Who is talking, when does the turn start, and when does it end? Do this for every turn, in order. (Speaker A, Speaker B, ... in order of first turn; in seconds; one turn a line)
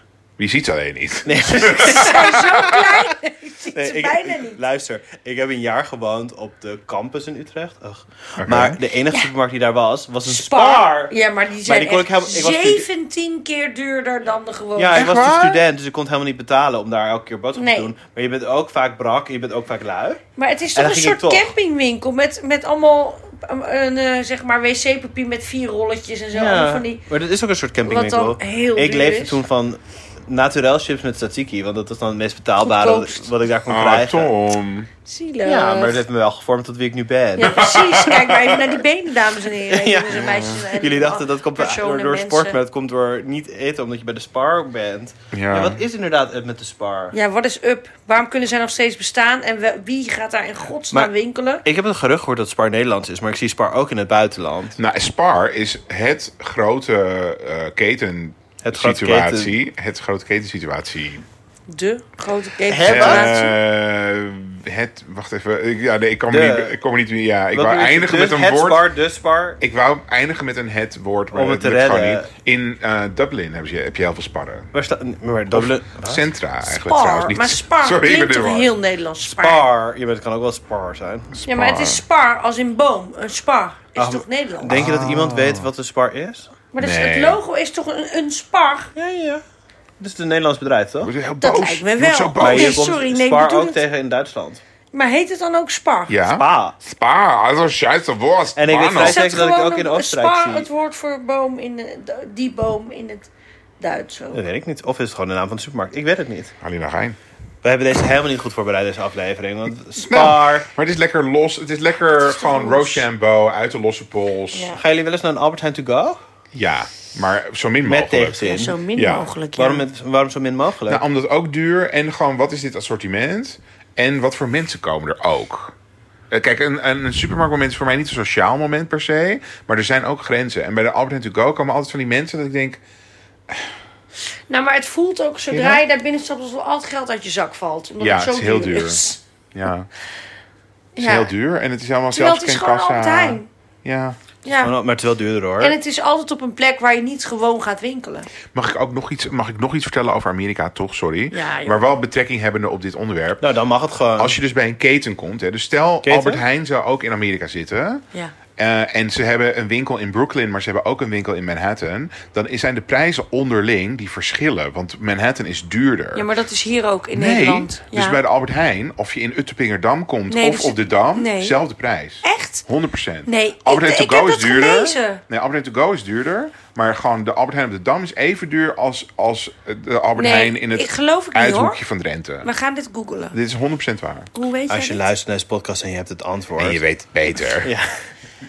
Speaker A: 0.4-2.8
Speaker B: 1.2-2.4
Speaker C: 1.8-4.6
Speaker B: 3.7-11.1
Speaker A: 8.4-8.8
Speaker C: 10.2-15.1
Speaker B: 11.6-12.9
Speaker B: 14.8-20.2
Speaker A: 14.9-15.6
Speaker C: 17.5-17.9
Speaker C: 20.4-27.0
Speaker B: 20.7-21.5
Speaker B: 26.3-34.3
Speaker C: 27.9-29.4
Speaker C: 32.6-33.3
Speaker A: 33.7-34.9
Speaker C: 35.0-36.0
Speaker B: 35.4-37.7
Speaker C: 37.4-42.6
Speaker A: 37.4-38.8
Speaker B: 39.7-47.1
Speaker A: 40.2-40.6
Speaker A: 45.3-45.8
Speaker C: 47.1-51.6
Speaker B: 51.6-54.8
Speaker A: 54.8-61.2
Speaker B: 58.6-59.5
Speaker C: 61.7-63.5
Speaker B: 62.7-63.3
Speaker A: 62.8-68.8
Speaker B: 66.3-66.8
Speaker B: 67.5-69.6
Speaker A: 69.6-74.7
Speaker B: 71.3-72.3
Speaker B: 74.7-76.2
Speaker A: 75.5-78.7
Speaker C: 76.7-79.7
Speaker B: 79.2-81.4
Speaker A: 81.3-82.0
Speaker C: 81.5-84.8
Speaker B: 84.0-86.5
Speaker A: 84.7-85.7
Speaker C: 86.7-88.9
Speaker A: 86.8-87.4
Speaker B: 89.0-89.4
Speaker B: 90.0-91.1
Speaker A: 91.0-92.8
Speaker C: 91.4-93.8
Speaker B: 92.4-94.6
Speaker C: 94.9-96.2
Speaker A: 96.1-99.2
Speaker B: 96.2-96.8
Speaker B: 98.5-100.7
Speaker C: 99.0-103.3
Speaker C: 103.8-104.4
Speaker B: 104.3-106.5
Speaker A: 106.6-107.2
Speaker B: 107.6-110.7
Speaker A: 110.0-114.7
Speaker C: 112.2-113.0
Speaker C: 114.5-114.8
Speaker B: 114.7-116.2
Speaker A: 116.5-118.4
Speaker B: 117.8-118.8
Speaker C: 118.4-119.8
Speaker A: 118.9-119.3
Speaker B: 119.5-121.0
Speaker A: 120.9-125.7
Speaker A: 126.3-132.8
Speaker C: 134.5-139.2
Speaker A: 135.5-135.8
Speaker A: 138.0-139.0
Speaker A: 139.5-139.9
Speaker C: 140.9-141.3
Speaker A: 141.0-144.2
Speaker C: 142.1-143.5
Speaker C: 144.4-144.7
Speaker B: 144.6-145.7
Speaker C: 145.6-148.3
Speaker A: 148.5-153.5
Speaker C: 151.3-151.8
Speaker B: 153.4-154.3
Speaker A: 154.2-158.0
Speaker B: 156.0-156.4
Speaker A: 158.6-166.3
Speaker C: 166.1-168.2
Speaker A: 167.1-182.5
Speaker C: 170.3-171.6
Speaker C: 172.2-172.6
Speaker C: 173.2-175.2
Speaker C: 180.2-181.8
Speaker C: 182.4-183.3
Speaker A: 183.3-184.3
Speaker C: 184.3-185.1
Speaker B: 184.7-186.8
Speaker A: 186.6-187.7
Speaker B: 187.6-188.0